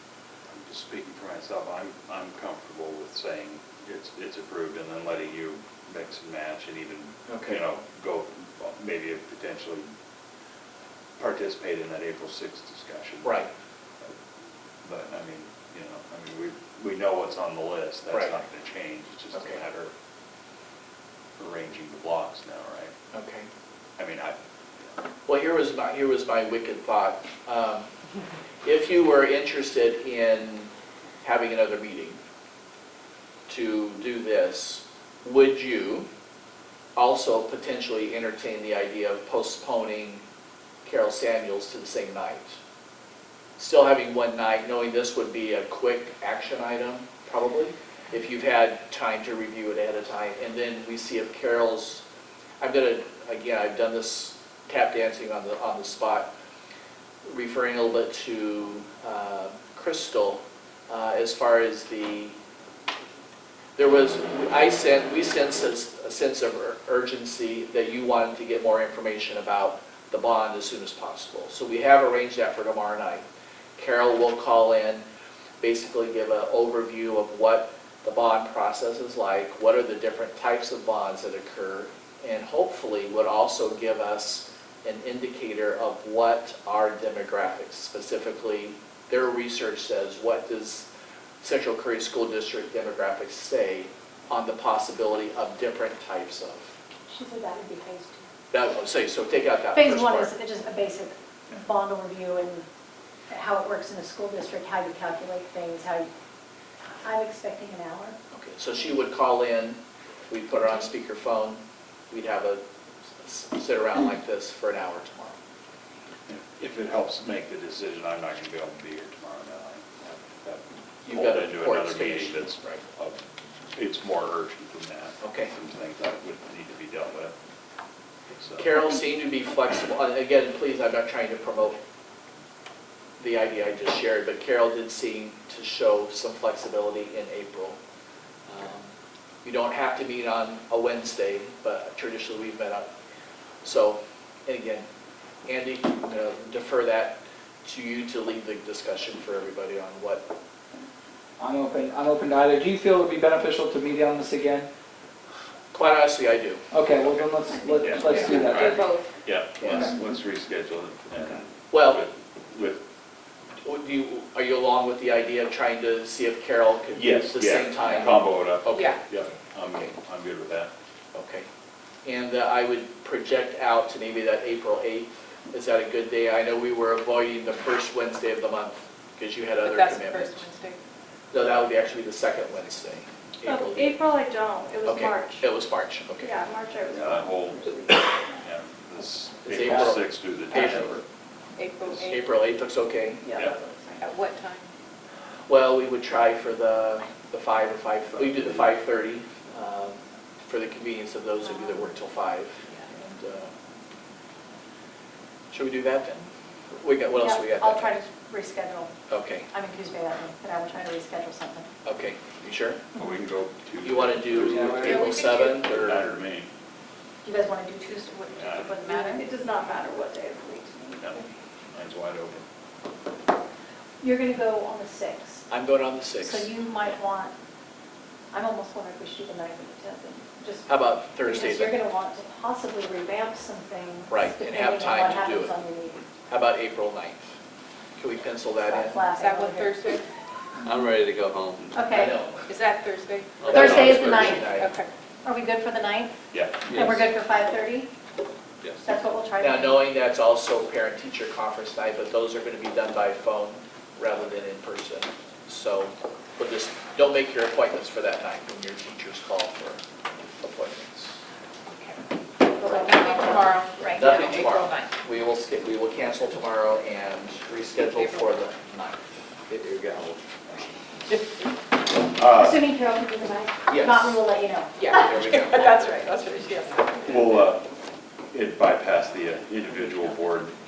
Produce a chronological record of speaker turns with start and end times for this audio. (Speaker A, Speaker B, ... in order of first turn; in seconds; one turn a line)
Speaker A: 0.5-9.9
Speaker B: 7.3-7.6
Speaker A: 11.2-13.4
Speaker B: 13.2-13.5
Speaker A: 14.8-19.9
Speaker B: 18.1-18.4
Speaker B: 19.3-19.6
Speaker A: 21.4-22.9
Speaker B: 23.1-23.5
Speaker A: 24.0-24.4
Speaker B: 25.3-27.9
Speaker B: 28.6-30.7
Speaker B: 31.2-32.2
Speaker B: 33.5-36.1
Speaker B: 37.0-40.2
Speaker B: 40.9-42.6
Speaker B: 43.6-52.0
Speaker B: 52.6-56.3
Speaker B: 57.2-62.4
Speaker B: 63.8-73.2
Speaker B: 73.8-75.0
Speaker B: 75.6-90.9
Speaker B: 91.4-96.7
Speaker C: 97.1-98.3
Speaker B: 98.5-100.3
Speaker C: 99.7-102.7
Speaker C: 103.3-106.1
Speaker C: 107.0-108.2
Speaker B: 108.3-112.6
Speaker B: 113.2-115.4
Speaker A: 116.3-127.3
Speaker B: 121.0-122.8
Speaker B: 125.2-125.5
Speaker A: 128.3-128.7
Speaker B: 128.6-131.8
Speaker B: 133.2-137.8
Speaker B: 138.5-138.9
Speaker B: 139.4-142.9
Speaker B: 143.6-144.9
Speaker B: 145.5-150.3
Speaker D: 151.4-154.7
Speaker B: 155.7-156.6
Speaker D: 156.7-158.9
Speaker A: 157.8-162.8
Speaker E: 158.1-159.1
Speaker B: 158.1-158.6
Speaker B: 159.6-159.9
Speaker B: 161.7-162.1
Speaker B: 163.6-169.0
Speaker A: 166.9-170.7
Speaker E: 168.7-169.0
Speaker B: 171.1-171.5
Speaker B: 172.1-180.5
Speaker E: 179.6-180.8
Speaker B: 181.3-184.1
Speaker F: 183.4-185.5
Speaker B: 184.8-186.3
Speaker F: 186.2-188.1
Speaker A: 186.9-191.0
Speaker B: 189.4-191.0
Speaker E: 191.6-192.3
Speaker A: 191.9-192.1
Speaker B: 192.1-193.2
Speaker C: 193.2-193.6
Speaker F: 193.4-193.8
Speaker E: 194.0-194.7
Speaker B: 195.5-203.5
Speaker A: 198.2-198.7
Speaker C: 201.4-201.9
Speaker B: 205.5-208.0
Speaker C: 207.2-208.9
Speaker B: 209.1-209.5
Speaker C: 209.5-211.7
Speaker B: 211.8-212.8
Speaker A: 212.9-216.5
Speaker B: 213.8-216.2
Speaker D: 214.4-214.9
Speaker F: 214.8-215.6
Speaker C: 217.2-219.3
Speaker A: 218.3-218.8
Speaker F: 218.8-221.1
Speaker A: 220.9-222.4
Speaker C: 224.0-225.5
Speaker B: 225.5-226.5
Speaker C: 226.2-227.3
Speaker C: 228.3-236.0
Speaker B: 230.7-231.8
Speaker B: 234.1-235.6
Speaker B: 236.3-237.3
Speaker B: 238.0-239.1
Speaker C: 238.6-239.9
Speaker E: 239.1-240.0
Speaker G: 240.6-241.7
Speaker C: 241.8-242.2
Speaker B: 241.9-242.4
Speaker E: 242.5-243.5
Speaker G: 243.4-244.0
Speaker C: 243.4-244.5
Speaker B: 243.5-244.7
Speaker A: 243.8-244.2
Speaker E: 244.4-244.9
Speaker C: 245.2-246.2
Speaker A: 246.3-246.7
Speaker G: 246.7-247.1
Speaker C: 246.7-247.9
Speaker C: 248.8-249.9
Speaker B: 249.4-259.8
Speaker B: 260.4-261.2
Speaker E: 262.5-264.9
Speaker C: 262.7-264.4
Speaker B: 263.9-270.6
Speaker E: 267.8-268.4
Speaker A: 272.1-272.6
Speaker C: 272.3-276.1
Speaker B: 273.7-274.2
Speaker E: 274.8-277.4
Speaker B: 274.9-275.9
Speaker A: 277.0-277.7
Speaker A: 278.3-280.6